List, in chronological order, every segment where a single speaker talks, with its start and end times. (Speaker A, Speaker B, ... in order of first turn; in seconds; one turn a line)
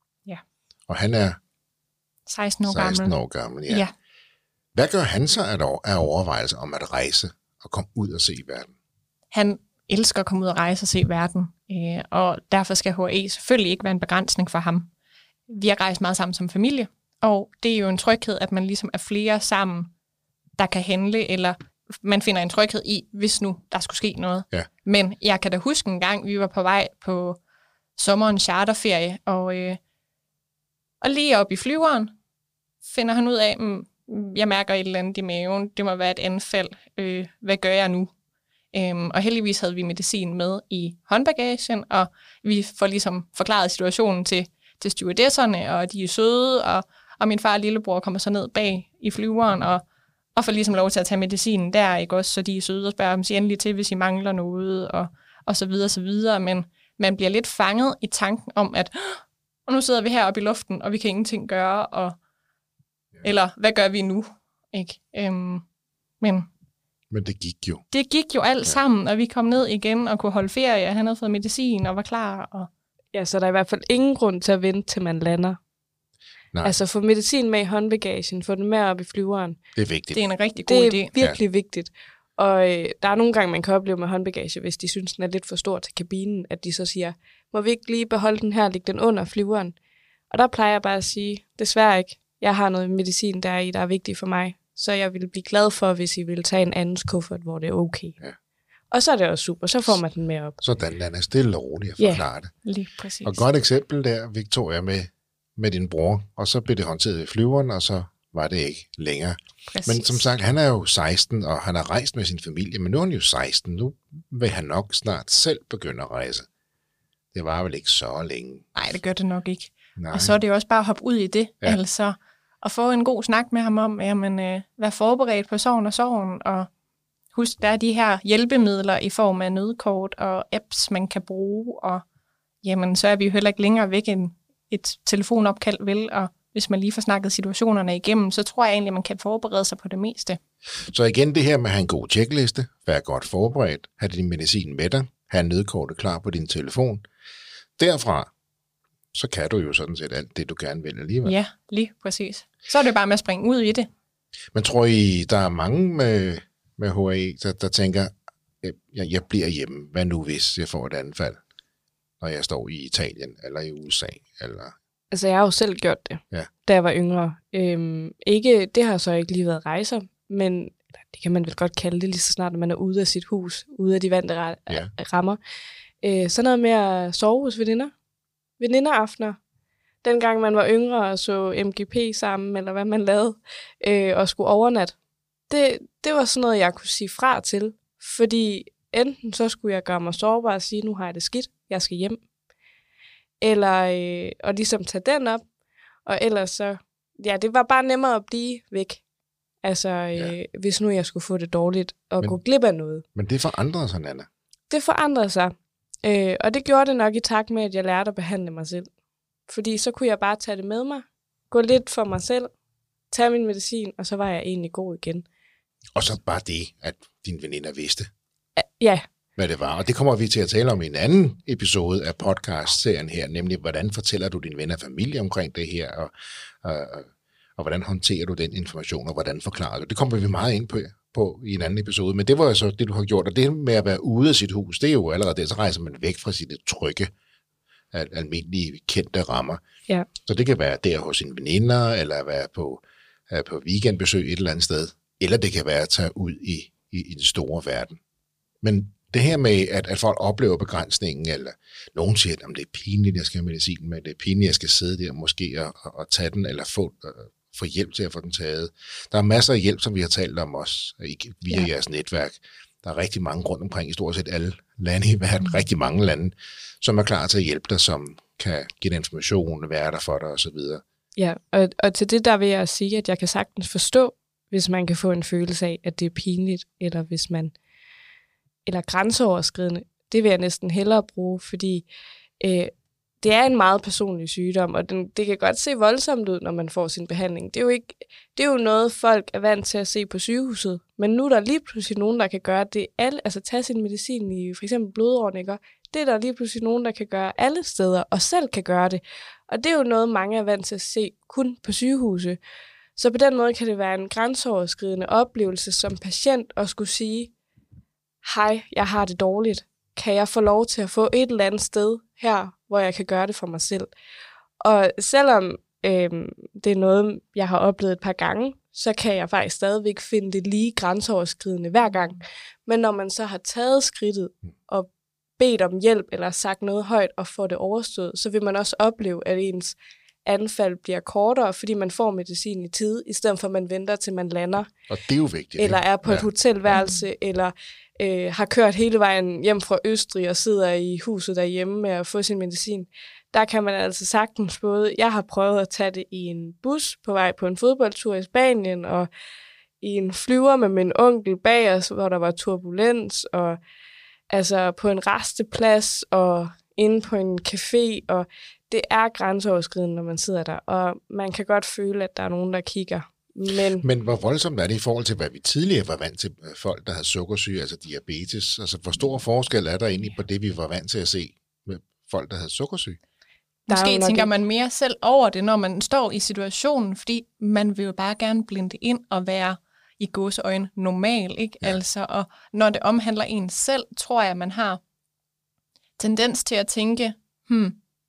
Speaker A: 0.9-1.4
Speaker B: 2.3-3.1
Speaker A: 2.7-3.9
Speaker A: 4.8-8.7
Speaker B: 9.3-14.9
Speaker B: 15.5-19.9
Speaker B: 20.6-27.4
Speaker B: 28.0-29.8
Speaker B: 31.0-32.1
Speaker B: 32.8-38.1
Speaker B: 38.7-49.8
Speaker B: 50.4-62.2
Speaker B: 63.2-65.7
Speaker B: 66.2-66.5
Speaker A: 67.1-67.8
Speaker B: 67.9-72.7
Speaker C: 73.1-75.6
Speaker A: 76.5-76.8
Speaker C: 76.6-79.6
Speaker A: 79.8-80.2
Speaker B: 80.1-81.1
Speaker C: 80.7-89.8
Speaker C: 90.3-98.2
Speaker C: 98.9-100.6
Speaker A: 100.6-102.5
Speaker B: 102.7-103.4
Speaker A: 103.2-116.5
Speaker B: 109.7-110.2
Speaker A: 117.3-118.7
Speaker B: 118.8-126.7
Speaker A: 120.0-120.4
Speaker B: 127.3-132.0
Speaker B: 132.6-140.4
Speaker A: 140.9-147.0
Speaker A: 147.8-148.3
Speaker A: 149.1-151.3
Speaker B: 151.2-153.9
Speaker A: 154.5-161.4
Speaker A: 162.2-164.8
Speaker C: 165.1-175.4
Speaker C: 176.0-177.9
Speaker C: 178.6-179.4
Speaker C: 180.0-184.9
Speaker C: 185.5-192.2
Speaker C: 193.4-195.4
Speaker C: 196.1-199.0
Speaker C: 199.6-203.1
Speaker A: 203.2-204.3
Speaker C: 204.7-208.9
Speaker C: 209.5-212.5
Speaker C: 213.1-215.3
Speaker A: 215.9-218.1
Speaker C: 218.6-219.1
Speaker A: 219.4-237.1
Speaker A: 237.9-239.6
Speaker A: 240.2-248.0
Speaker A: 248.6-270.8
Speaker C: 271.2-277.5
Speaker C: 278.7-281.9
Speaker C: 282.4-302.4
Speaker C: 303.0-307.3
Speaker C: 308.2-313.9
Speaker C: 314.6-334.7
Speaker A: 334.9-336.3
Speaker C: 335.6-349.1
Speaker B: 336.7-337.0
Speaker C: 349.8-353.6
Speaker C: 354.3-363.9
Speaker A: 363.8-373.0
Speaker B: 373.7-384.8
Speaker C: 373.7-374.3
Speaker B: 386.0-387.8